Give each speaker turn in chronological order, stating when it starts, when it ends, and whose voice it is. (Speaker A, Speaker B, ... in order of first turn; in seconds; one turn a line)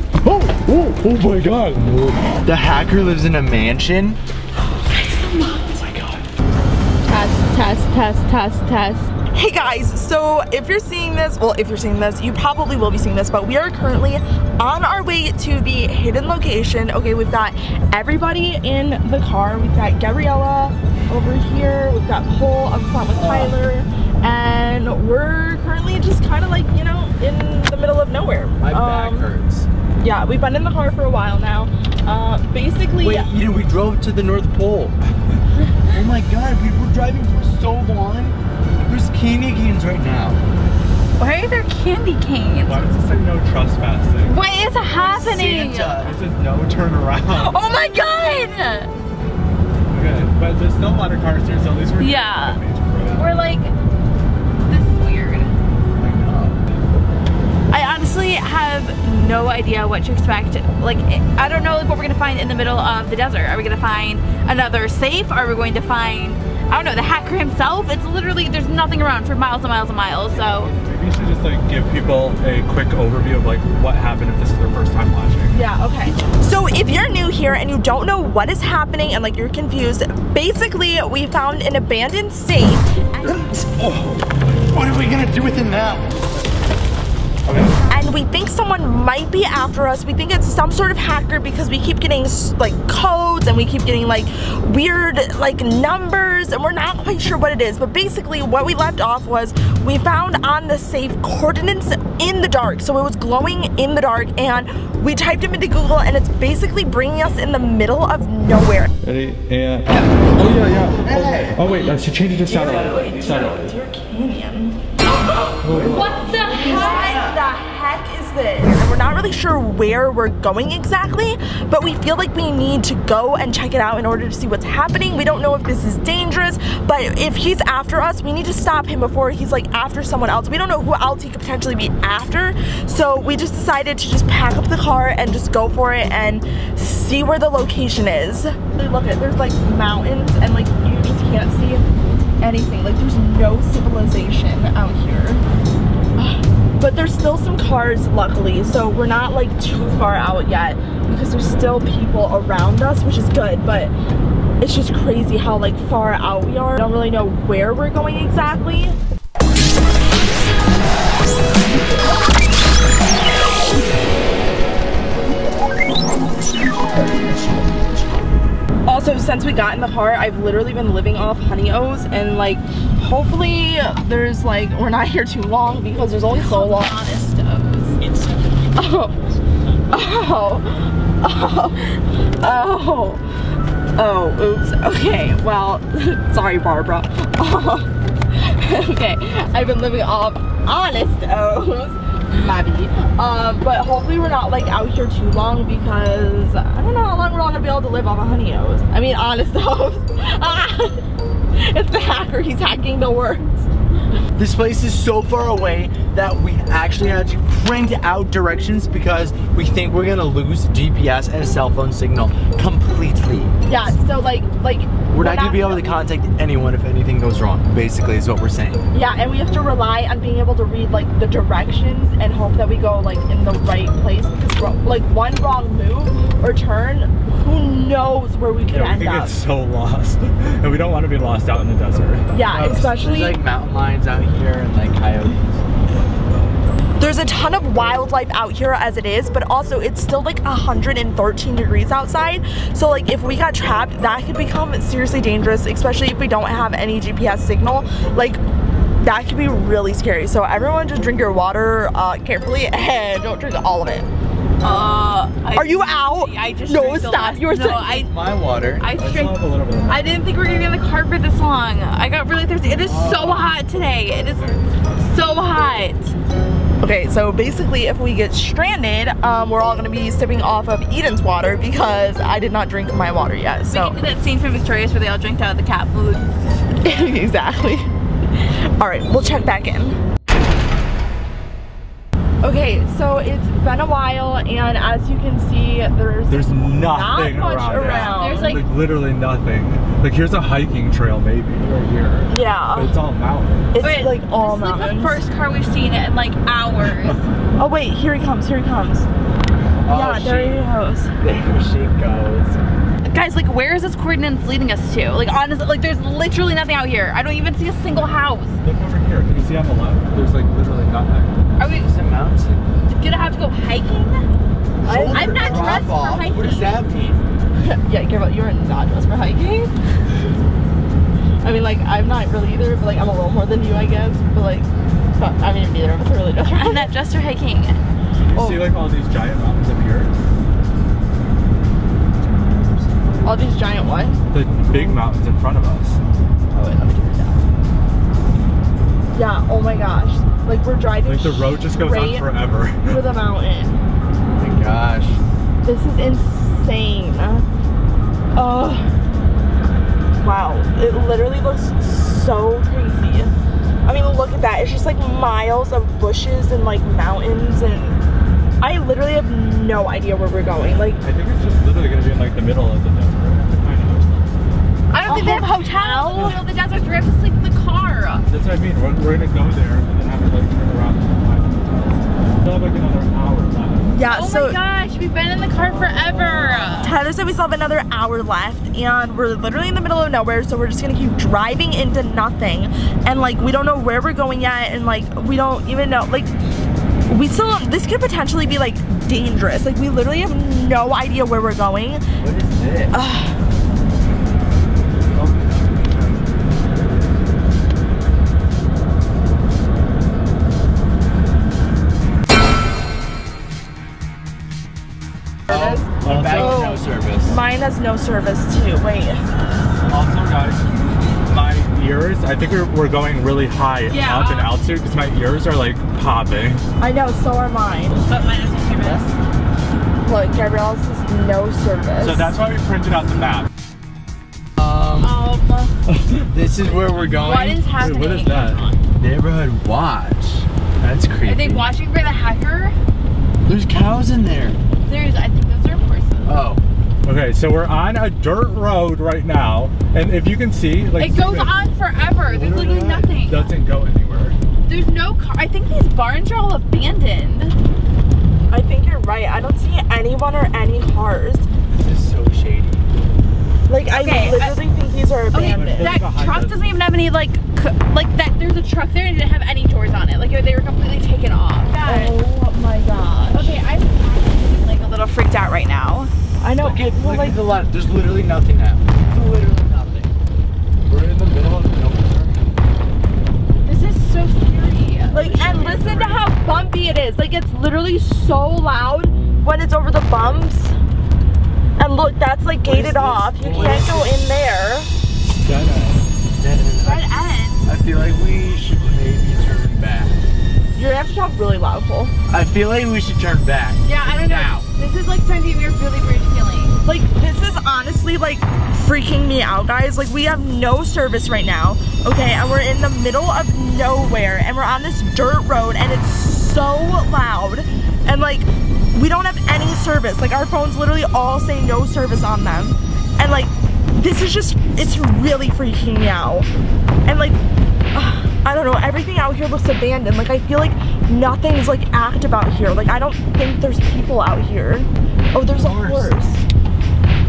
Speaker A: 0.2-4.2
Speaker B: 4.6-5.8
Speaker A: 5.7-6.2
Speaker B: 7.1-9.1
Speaker C: 9.3-29.3
Speaker A: 23.1-23.5
Speaker A: 28.6-29.7
Speaker C: 30.0-33.3
Speaker A: 33.0-35.0
Speaker A: 35.9-40.4
Speaker B: 41.2-42.8
Speaker D: 42.6-44.4
Speaker B: 44.2-46.1
Speaker A: 44.8-46.2
Speaker D: 46.1-47.5
Speaker B: 47.3-48.9
Speaker D: 49.9-53.4
Speaker B: 52.0-52.6
Speaker B: 53.1-53.7
Speaker B: 54.7-55.5
Speaker A: 56.0-56.6
Speaker B: 57.7-70.7
Speaker D: 70.0-75.6
Speaker C: 75.5-83.3
Speaker D: 83.8-84.2
Speaker A: 84.7-86.1
Speaker D: 87.4-87.8
Speaker C: 87.9-108.9
Speaker D: 109.0-113.8
Speaker A: 109.9-111.7
Speaker C: 112.5-115.6
Speaker A: 112.5-113.4
Speaker A: 115.6-117.4
Speaker D: 115.6-116.0
Speaker B: 115.8-117.2
Speaker C: 116.4-141.8
Speaker C: 142.4-145.4
Speaker C: 146.8-153.9
Speaker C: 154.6-158.9
Speaker C: 168.8-176.9
Speaker B: 176.3-178.0
Speaker C: 178.8-179.2
Speaker C: 179.9-183.2
Speaker C: 183.9-201.0
Speaker C: 201.5-203.7
Speaker A: 204.3-213.5
Speaker C: 213.7-215.8
Speaker A: 215.1-218.8
Speaker C: 218.9-229.3
Speaker D: 228.7-232.3
Speaker C: 232.3-233.4
Speaker A: 232.4-235.6
Speaker C: 237.0-248.4
Speaker C: 249.0-254.1
Speaker B: 254.6-258.1
Speaker C: 255.5-257.9
Speaker A: 257.9-258.9
Speaker B: 258.8-266.1
Speaker D: 259.0-260.1
Speaker A: 262.8-263.5
Speaker D: 264.4-264.6
Speaker C: 266.8-274.0
Speaker B: 273.7-277.1
Speaker C: 276.8-280.0
Speaker C: 282.4-288.5
Speaker D: 286.3-293.7
Speaker B: 287.8-288.7
Speaker C: 292.3-292.9
Speaker C: 293.7-295.2
Speaker B: 293.8-297.2
Speaker D: 296.9-297.2
Speaker C: 297.6-299.1
Speaker A: 299.8-302.6
Speaker C: 299.9-301.1
Speaker B: 303.0-308.6
Speaker D: 308.6-311.3
Speaker B: 311.6-311.9
Speaker A: 311.8-312.7
Speaker B: 312.9-314.2
Speaker A: 314.8-317.2
Speaker C: 314.8-315.9
Speaker B: 315.1-316.8
Speaker C: 317.6-319.7
Speaker C: 321.4-326.9
Speaker B: 326.4-327.8
Speaker D: 328.1-330.1
Speaker C: 328.3-328.7
Speaker A: 332.5-332.8
Speaker C: 333.2-335.0
Speaker D: 334.3-336.0
Speaker C: 336.5-337.4
Speaker C: 339.1-342.3
Speaker D: 341.0-343.0
Speaker C: 342.9-343.8
Speaker A: 344.4-345.2
Speaker C: 345.6-347.5
Speaker C: 348.4-348.9
Speaker C: 350.2-353.3
Speaker C: 353.9-358.0
Speaker C: 358.6-361.0
Speaker D: 361.0-364.6
Speaker B: 364.9-368.2
Speaker C: 365.1-366.4
Speaker D: 366.1-366.4
Speaker D: 368.3-373.9
Speaker C: 373.9-374.6
Speaker B: 374.1-376.9
Speaker C: 376.8-386.3
Speaker C: 387.1-392.0
Speaker A: 392.2-392.9
Speaker C: 392.9-393.4
Speaker D: 395.1-396.4
Speaker A: 405.5-407.4
Speaker C: 405.5-409.2
Speaker D: 406.0-406.6
Speaker D: 409.9-410.7
Speaker D: 411.2-416.6
Speaker B: 413.9-414.5
Speaker C: 416.8-418.0
Speaker B: 418.0-419.2
Speaker C: 420.0-422.3
Speaker D: 422.0-423.5
Speaker A: 424.6-425.2
Speaker B: 425.0-425.7
Speaker D: 425.9-426.2
Speaker A: 426.2-427.6
Speaker B: 427.2-428.7
Speaker D: 427.8-428.6
Speaker A: 429.0-431.7
Speaker B: 431.2-432.8
Speaker A: 433.5-434.6
Speaker B: 434.8-436.3
Speaker A: 436.2-436.6
Speaker D: 437.0-441.6
Speaker B: 440.9-443.5
Speaker A: 442.2-443.1
Speaker D: 443.2-444.4
Speaker B: 444.7-447.6
Speaker C: 448.5-451.5
Speaker A: 451.7-452.9
Speaker C: 453.7-456.0
Speaker B: 453.9-454.6
Speaker B: 455.3-462.2
Speaker D: 455.4-456.6
Speaker C: 461.7-463.5
Speaker B: 463.3-466.1
Speaker C: 466.4-467.4
Speaker A: 466.6-470.1
Speaker A: 470.9-472.4
Speaker B: 473.6-476.2
Speaker C: 475.1-480.8
Speaker C: 481.8-484.9
Speaker A: 482.6-484.1
Speaker D: 483.4-483.8
Speaker D: 485.4-486.1
Speaker A: 486.4-487.1
Speaker B: 486.8-487.6
Speaker A: 487.6-490.2
Speaker C: 490.8-492.1
Speaker A: 492.3-494.7
Speaker B: 493.8-496.8
Speaker C: 496.8-516.5
Speaker C: 517.1-517.4
Speaker C: 517.9-526.4
Speaker A: 525.5-526.2